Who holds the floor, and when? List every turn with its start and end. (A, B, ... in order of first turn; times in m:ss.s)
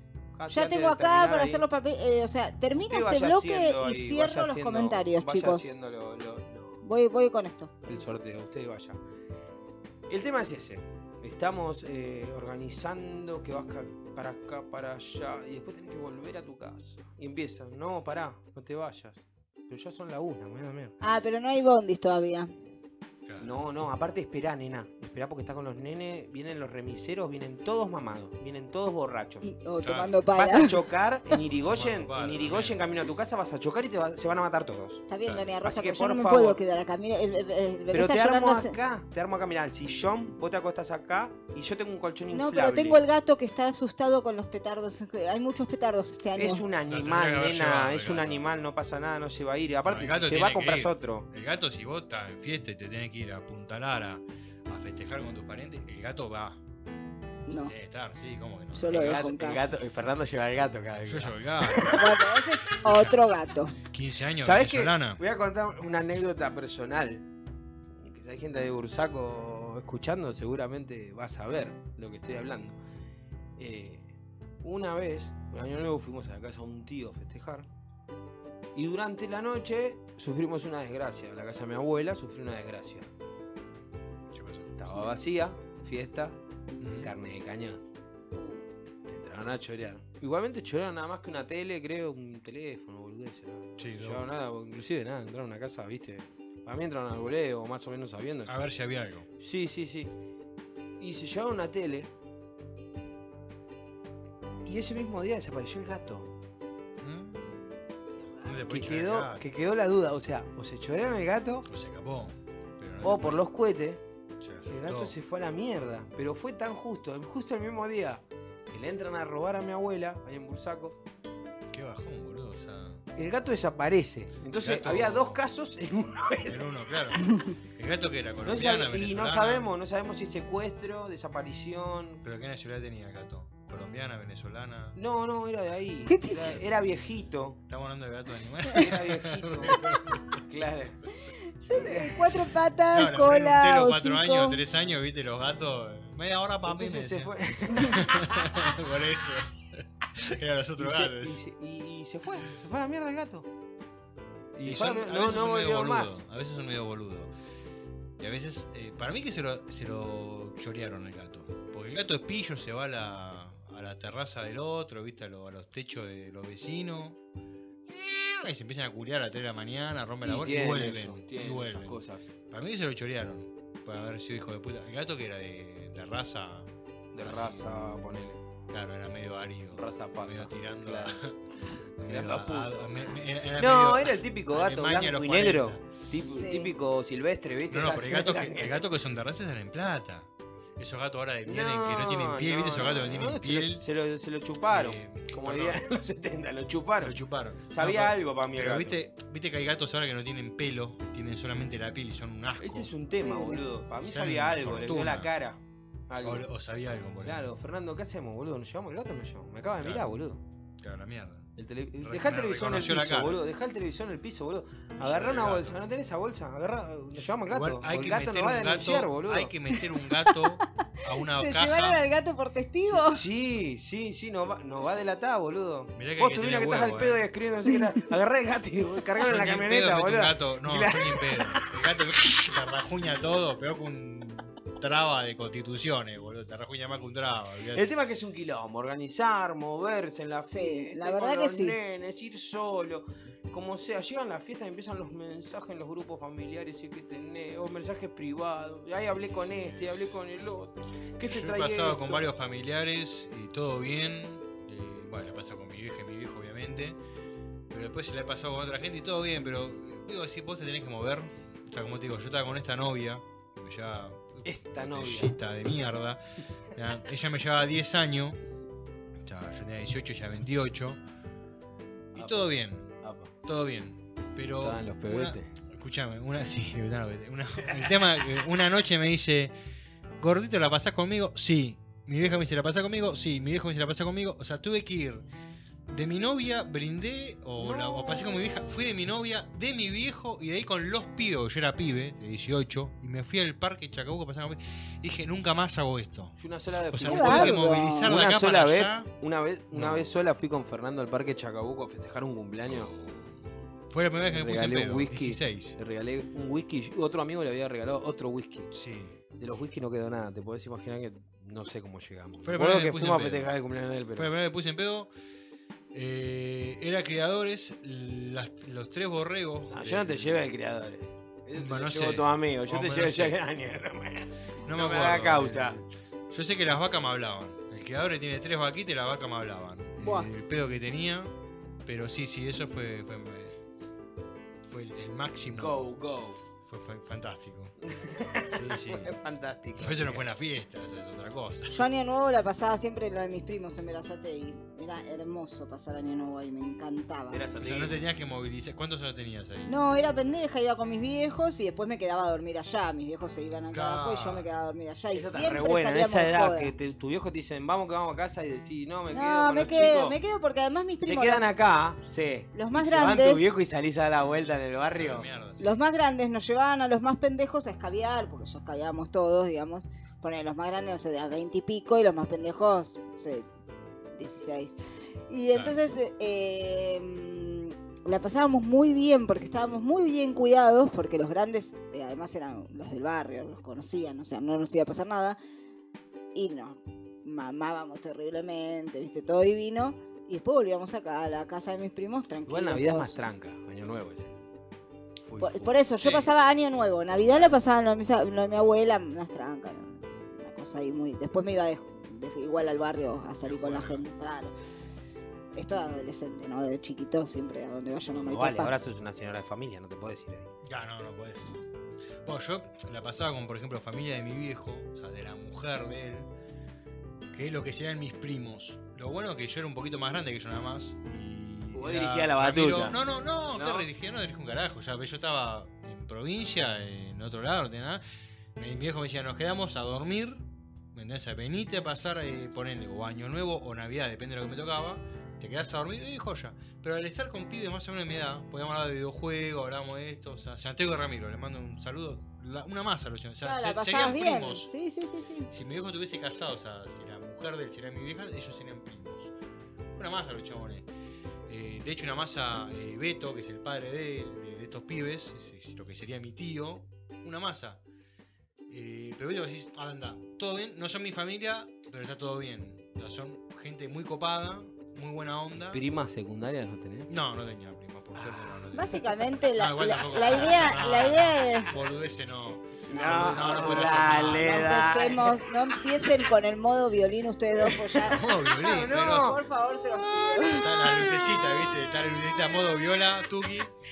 0:00.4-0:01.6 A
0:00.5-0:05.7 B
0:02.8-0:06.8 A
0:06.8-0:08.1 B
0:07.8-0:09.0 A
0:10.1-0:21.0 A
0:21.0-0:22.5 B
0:23.2-0:23.5 C
0:23.4-0:29.5 A
0:29.4-0:30.8 B
0:29.8-0:30.2 C
0:30.3-0:35.0 A
0:31.3-0:32.9 C
0:35.1-0:38.8 B
0:35.6-0:36.6 A
0:37.9-0:43.0 A
0:42.3-0:46.6 B
0:46.4-0:51.3 A
0:46.9-0:48.4 C
0:49.9-0:56.6 C
0:57.5-0:57.7 B
0:57.6-0:59.3 C
0:58.7-0:59.7 B
0:58.9-1:02.2 A
1:01.0-1:02.0 C
1:01.9-1:03.8 B
1:02.9-1:03.2 C
1:03.9-1:05.2 C
1:04.4-1:07.2 A
1:07.9-1:12.8 A
1:13.6-1:14.1 A
1:14.6-1:17.7 A
1:18.7-1:23.1 A
1:24.3-1:24.8 C
1:24.8-1:26.4 A
1:26.8-1:27.1 C
1:27.0-1:27.8 A
1:28.3-1:28.6 B
1:29.1-1:38.5 A
1:33.8-1:34.2 C
1:38.5-1:39.3 C
1:39.4-1:40.1 A
1:41.0-1:42.1 A
1:44.6-1:46.3 A
1:47.0-1:47.6 C
1:48.4-1:49.4 C
1:48.7-1:51.7 A
1:51.7-1:53.4 C
1:53.0-1:54.0 A
1:54.4-1:55.1 C
1:54.7-2:01.0 A
2:01.7-2:03.0 C
2:03.2-2:06.7 A
2:04.5-2:05.4 C
2:06.5-2:09.6 C
2:07.2-2:07.5 B
2:08.4-2:12.2 A
2:12.2-2:15.0 C
2:15.0-2:17.6 A
2:16.0-2:16.5 B
2:17.7-2:20.4 C
2:18.7-2:21.0 A
2:21.3-2:24.6 B
2:21.8-2:22.2 A
2:22.9-2:31.4 C
2:26.6-2:28.6 A
2:30.8-2:33.5 A
2:34.6-2:36.2 A
2:34.6-2:37.3 C
2:38.2-2:47.2 C
2:47.9-2:56.7 C
2:50.2-2:52.3 A
2:57.1-2:58.4 A
2:57.2-2:58.0 C
2:58.7-3:05.8 C
2:59.7-3:01.2 A
3:02.0-3:08.9 A
3:06.3-3:06.7 B
3:07.7-3:13.8 C
3:11.4-3:17.1 A
3:14.7-3:15.8 C
3:17.0-3:22.9 C
3:17.7-3:19.0 A
3:22.6-3:26.4 A
3:23.2-3:23.6 B
3:24.0-3:25.3 C
3:26.2-3:27.4 C
3:27.2-3:30.4 A
3:29.8-3:30.1 C
3:30.8-3:31.5 C
3:31.6-3:39.5 A
3:32.0-3:33.4 C
3:35.0-3:35.8 C
3:37.5-3:42.0 C
3:39.8-3:40.3 B
3:41.3-3:43.2 B
3:42.9-3:51.7 A
3:45.9-3:47.2 C
3:49.2-3:57.9 C
3:57.7-4:12.3 A
4:00.5-4:01.8 B
4:09.1-4:10.1 C
4:11.3-4:17.0 C
4:17.7-4:26.2 C
4:24.4-4:25.4 A
4:26.7-4:28.4 C
4:29.2-4:31.0 C
4:32.1-4:39.5 C
4:32.1-4:32.5 A
4:33.0-4:33.3 A
4:34.6-4:35.5 A
4:40.2-4:45.2 C
4:45.9-4:56.4 C
4:47.6-4:48.4 A
4:56.4-5:02.9 A
4:56.9-4:59.1 C
4:57.1-4:58.1 B
4:59.7-5:00.1 C
5:02.6-5:05.8 C
5:04.2-5:08.7 A
5:08.7-5:09.1 C
5:09.4-5:14.3 A
5:12.4-5:13.5 C
5:14.2-5:15.1 C
5:15.9-5:20.4 C
5:19.7-5:25.8 A
5:21.6-5:23.4 C
5:24.6-5:31.3 C
5:30.0-5:30.3 B
5:31.9-5:33.6 C
5:34.6-5:35.8 C
5:35.6-5:36.4 A
5:36.7-5:37.7 C
5:37.8-5:40.2 A
5:38.5-5:39.1 C
5:39.8-5:41.8 C
5:41.7-5:47.4 B
5:47.3-5:48.0 A
5:47.6-5:49.7 C
5:49.7-5:56.7 B
5:53.7-5:54.5 C
5:55.1-6:00.2 A
5:59.1-6:01.4 B
6:01.0-6:05.3 A
6:02.5-6:03.5 B
6:04.9-6:05.7 C
6:05.6-6:13.5 B
6:14.2-6:14.8 B
6:15.3-6:25.4 B
6:26.4-6:33.1 B
6:32.5-6:34.4 A
6:35.3-6:35.7 A
6:35.4-6:44.5 B
6:36.0-6:36.3 C
6:43.4-6:44.0 C
6:45.6-6:48.7 B
6:48.1-6:50.5 A
6:50.6-6:51.6 C
6:52.2-6:56.3 C
6:57.3-7:08.0 C
7:01.7-7:03.0 A
7:03.5-7:03.9 A
7:08.6-7:10.4 C
7:10.9-7:24.7 C
7:23.4-7:25.5 B
7:25.5-7:29.3 C
7:30.0-7:30.9 C
7:31.5-7:37.8 C
7:38.7-7:45.8 C
7:45.7-7:47.1 A
7:47.1-7:54.8 C
7:48.2-7:48.5 A
7:48.7-7:51.7 B
7:52.9-7:55.8 A
7:54.4-8:01.1 B
7:57.6-7:58.0 A
7:58.0-7:59.4 C
7:58.5-7:59.4 A
8:00.5-8:03.7 C